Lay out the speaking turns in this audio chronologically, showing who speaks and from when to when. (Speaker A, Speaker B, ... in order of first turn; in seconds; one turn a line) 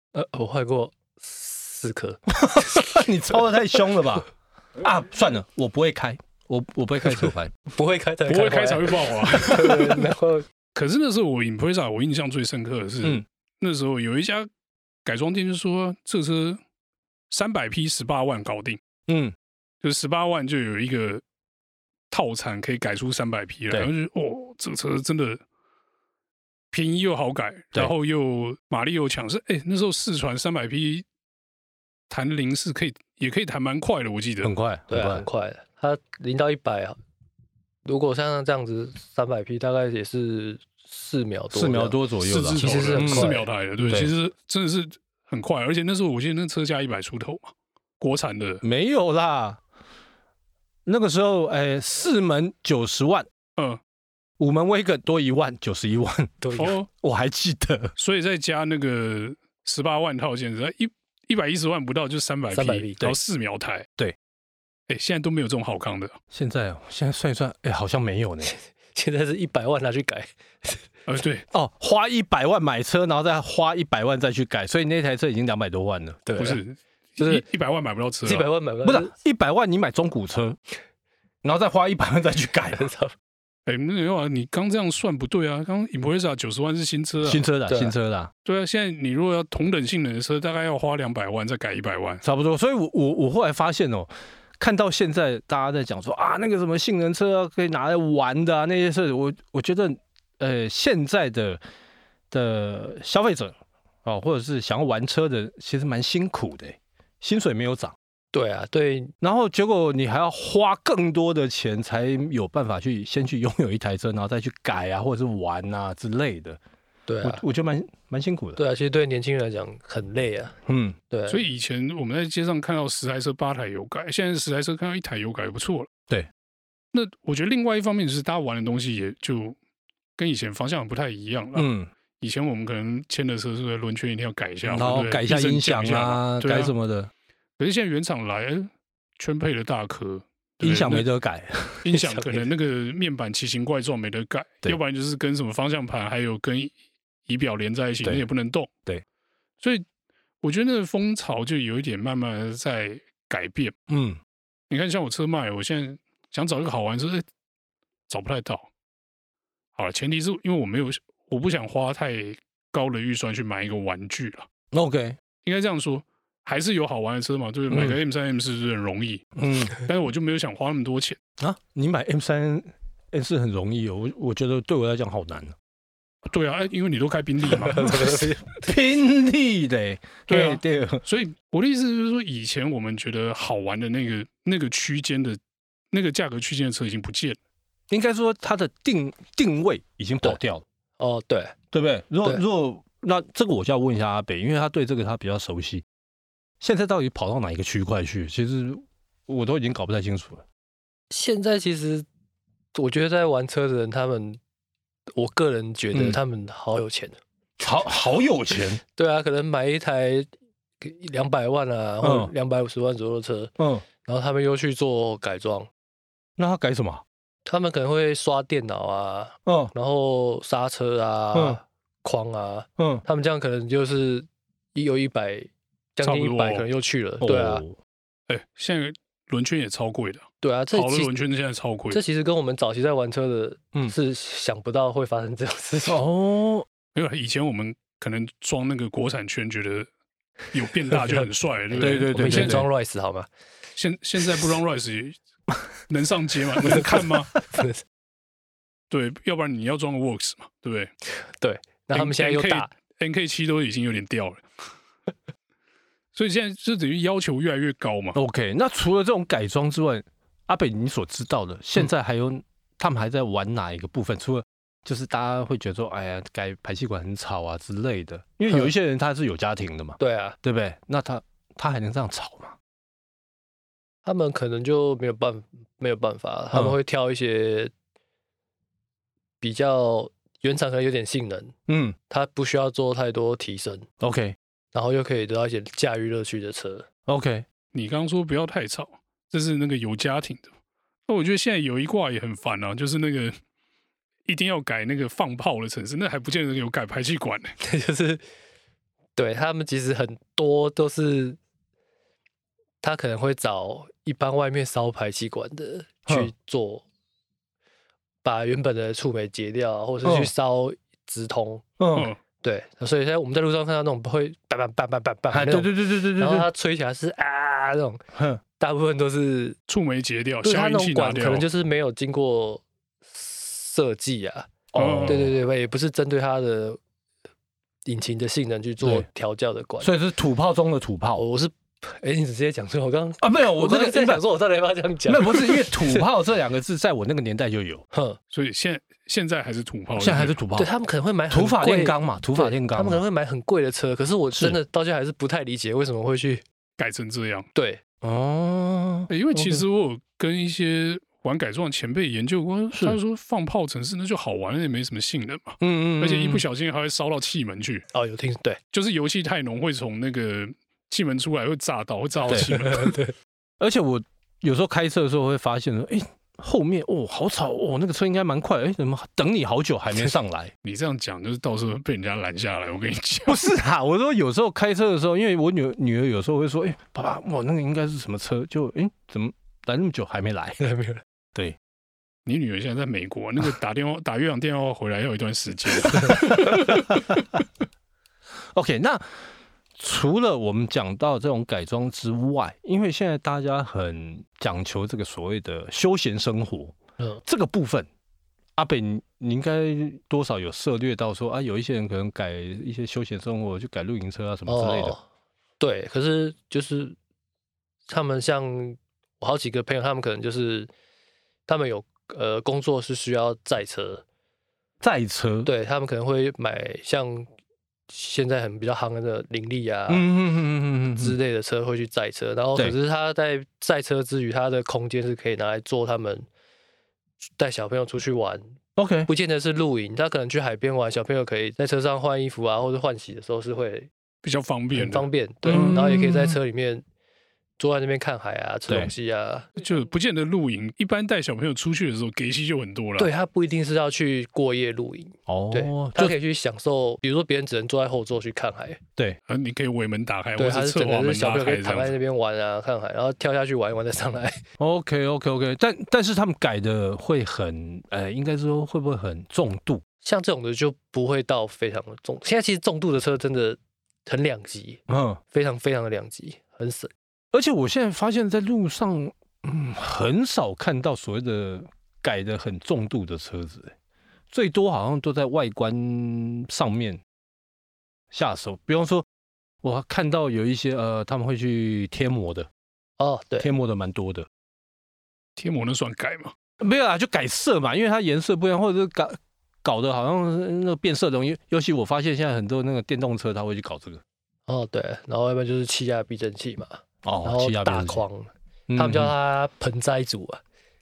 Speaker A: 0.1-2.9
Speaker B: 2.3-7.5
Speaker A: 7.2-10.4
Speaker C: 8.2-10.1
Speaker C: 10.8-14.5
Speaker C: 15.0-16.6
Speaker C: 17.3-18.8
Speaker B: 19.1-19.3
Speaker C: 19.8-21.2
Speaker C: 22.1-25.4
Speaker C: 26.7-31.0
Speaker C: 32.1-34.5
Speaker B: 34.4-35.2
Speaker A: 34.9-37.0
Speaker A: 37.9-42.0
Speaker B: 41.5-44.1
Speaker C: 42.2-48.6
Speaker A: 42.6-43.5
Speaker B: 48.6-49.6
Speaker B: 50.9-53.3
Speaker B: 54.4-57.9
Speaker A: 56.4-56.8
Speaker C: 56.5-56.9
Speaker C: 58.0-63.9
Speaker A: 62.5-63.1
Speaker C: 64.9-66.2
Speaker B: 66.3-68.5
Speaker A: 68.4-70.9
Speaker C: 71.1-71.4
Speaker B: 71.5-76.3
Speaker A: 76.2-76.6
Speaker C: 76.4-78.5
Speaker A: 78.2-79.1
Speaker B: 78.8-80.6
Speaker B: 81.4-82.9
Speaker A: 82.8-83.1
Speaker C: 83.7-87.4
Speaker B: 87.2-88.3
Speaker A: 87.7-87.9
Speaker C: 88.4-92.2
Speaker B: 92.2-101.6
Speaker B: 102.3-107.9
Speaker A: 108.3-109.1
Speaker B: 109.2-116.6
Speaker A: 117.1-117.4
Speaker B: 117.2-118.6
Speaker A: 118.6-120.6
Speaker B: 120.7-121.0
Speaker A: 121.1-121.4
Speaker C: 121.3-125.9
Speaker C: 126.9-129.6
Speaker C: 130.2-131.7
Speaker B: 131.5-131.9
Speaker C: 132.2-136.7
Speaker B: 134.6-137.1
Speaker C: 137.6-141.1
Speaker B: 140.6-141.8
Speaker C: 141.8-146.7
Speaker A: 141.9-142.5
Speaker C: 147.2-148.7
Speaker C: 149.6-149.8
Speaker C: 150.4-153.7
Speaker B: 153.9-154.2
Speaker C: 154.7-157.2
Speaker C: 158.1-158.7
Speaker C: 159.8-164.5
Speaker B: 164.7-165.2
Speaker C: 165.4-171.2
Speaker B: 167.7-168.0
Speaker B: 169.3-169.8
Speaker B: 171.4-175.5
Speaker C: 176.3-178.2
Speaker A: 177.6-178.5
Speaker B: 178.6-181.0
Speaker C: 180.3-185.4
Speaker C: 185.9-187.4
Speaker B: 187.9-190.6
Speaker A: 191.0-191.6
Speaker B: 191.7-195.8
Speaker B: 196.6-200.4
Speaker A: 201.1-202.1
Speaker A: 202.7-204.4
Speaker A: 205.1-207.2
Speaker B: 205.9-206.2
Speaker B: 207.6-208.8
Speaker A: 208.9-210.3
Speaker A: 210.8-215.7
Speaker B: 212.0-212.3
Speaker B: 213.6-213.8
Speaker B: 216.4-217.0
Speaker A: 217.4-227.6
Speaker B: 219.4-219.7
Speaker B: 221.3-221.6
Speaker B: 222.8-223.0
Speaker C: 226.0-226.7
Speaker B: 227.2-227.8
Speaker C: 228.3-232.0
Speaker A: 230.4-231.1
Speaker A: 231.9-236.0
Speaker B: 235.8-236.7
Speaker C: 236.9-239.9
Speaker C: 240.5-242.6
Speaker A: 240.9-243.3
Speaker B: 241.8-242.7
Speaker C: 243.7-245.2
Speaker C: 245.9-247.3
Speaker A: 246.6-247.8
Speaker C: 248.9-250.9
Speaker A: 251.4-252.7
Speaker C: 251.9-254.4
Speaker C: 256.1-258.2
Speaker B: 258.1-272.6
Speaker A: 270.0-270.4
Speaker A: 274.1-277.7
Speaker B: 276.5-276.8
Speaker A: 279.4-281.5
Speaker B: 281.7-281.9
Speaker A: 282.1-283.9
Speaker B: 284.0-284.4
Speaker A: 284.7-286.9
Speaker B: 287.1-287.4
Speaker C: 287.7-290.5
Speaker C: 291.1-293.3
Speaker C: 294.2-297.5
Speaker A: 297.6-298.2
Speaker A: 299.2-301.4
Speaker A: 302.8-306.8
Speaker A: 308.2-311.6
Speaker B: 310.0-310.3
Speaker B: 311.8-312.1
Speaker C: 311.9-312.2
Speaker A: 312.4-318.0
Speaker B: 315.3-316.5
Speaker B: 318.1-318.4
Speaker A: 318.6-319.6
Speaker C: 319.7-321.4
Speaker A: 320.4-326.8
Speaker B: 324.7-325.3
Speaker C: 324.8-325.3
Speaker A: 327.9-329.9
Speaker B: 328.8-329.1
Speaker B: 329.8-331.2
Speaker A: 331.2-336.1
Speaker B: 333.2-334.2
Speaker B: 335.1-337.8
Speaker A: 337.9-338.2
Speaker C: 338.3-340.4
Speaker B: 340.0-340.7
Speaker A: 340.6-346.4
Speaker B: 341.3-343.0
Speaker C: 346.8-347.4
Speaker A: 347.5-347.8
Speaker B: 348.0-349.6
Speaker C: 349.1-357.8
Speaker B: 352.7-353.0
Speaker B: 355.6-356.4
Speaker A: 357.9-358.6
Speaker C: 358.7-363.0
Speaker B: 362.3-362.5
Speaker A: 362.6-363.1
Speaker B: 363.6-370.5
Speaker C: 370.6-373.5
Speaker B: 373.3-380.6
Speaker A: 380.6-381.0
Speaker C: 382.2-387.1
Speaker B: 388.5-389.1
Speaker B: 389.8-397.9
Speaker B: 398.6-404.9
Speaker A: 404.5-405.0
Speaker A: 405.6-406.9
Speaker A: 407.9-410.7
Speaker A: 411.5-414.0
Speaker B: 414.8-415.5
Speaker A: 415.4-417.3
Speaker A: 417.9-420.1
Speaker B: 419.9-421.2
Speaker A: 420.9-426.3
Speaker A: 427.4-428.4
Speaker B: 428.8-429.1
Speaker A: 429.1-433.9
Speaker C: 434.2-435.7
Speaker A: 434.7-436.8
Speaker B: 435.4-436.4
Speaker A: 437.6-439.5
Speaker C: 439.6-443.1
Speaker A: 443.0-448.8
Speaker B: 445.3-446.1
Speaker C: 449.3-451.9
Speaker A: 450.4-454.4
Speaker B: 454.6-459.8
Speaker A: 460.0-466.9
Speaker B: 464.9-465.2
Speaker B: 467.3-473.7
Speaker B: 474.3-477.0
Speaker B: 478.1-479.1
Speaker B: 479.6-482.5
Speaker A: 483.0-483.5
Speaker B: 483.4-484.3
Speaker C: 485.4-486.3
Speaker B: 486.6-494.0
Speaker A: 494.5-500.4
Speaker B: 497.0-498.0
Speaker B: 498.7-499.1